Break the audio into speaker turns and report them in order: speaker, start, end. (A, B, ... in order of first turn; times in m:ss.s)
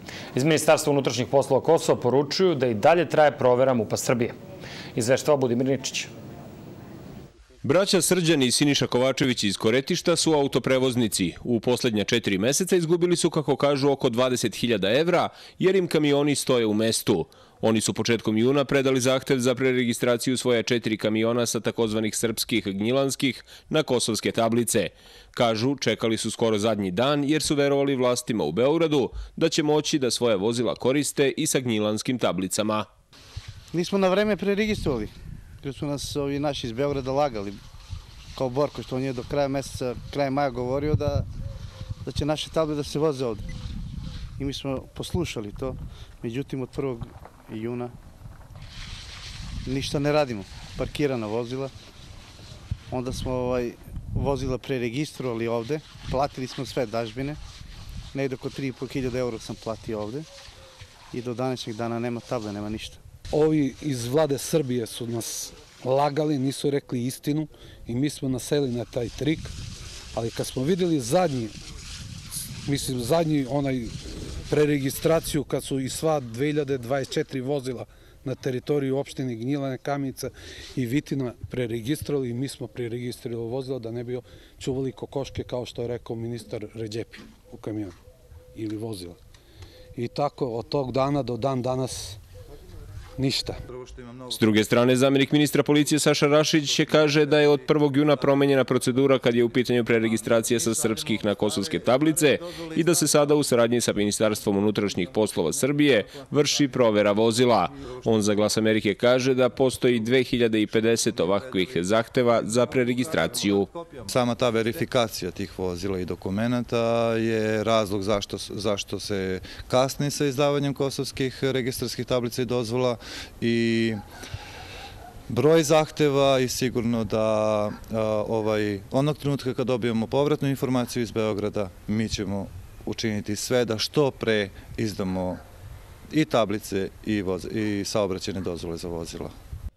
0:00.3-0:04.4 A
0:05.0-0:06.1 A
0:07.6-0:32.9 B
0:33.7-0:35.1 C
0:35.6-0:37.6 C
0:38.4-0:41.3 C
0:42.0-0:43.5 C
0:44.4-0:47.9 C
0:49.7-0:51.7 C
0:52.9-0:57.4 C
0:58.1-1:00.3 C
1:01.1-1:03.0 C
1:03.3-1:09.6 D
1:10.1-1:11.6 D
1:12.6-1:13.9 D
1:14.5-1:28.0 D
1:28.6-1:29.2 D
1:30.0-1:32.2 D
1:33.2-1:33.6 D
1:33.7-1:34.4 E
1:34.3-1:53.7 B
1:41.2-1:43.0 E
1:53.2-2:04.0 E
2:05.3-2:15.4 E
2:16.1-2:19.3 E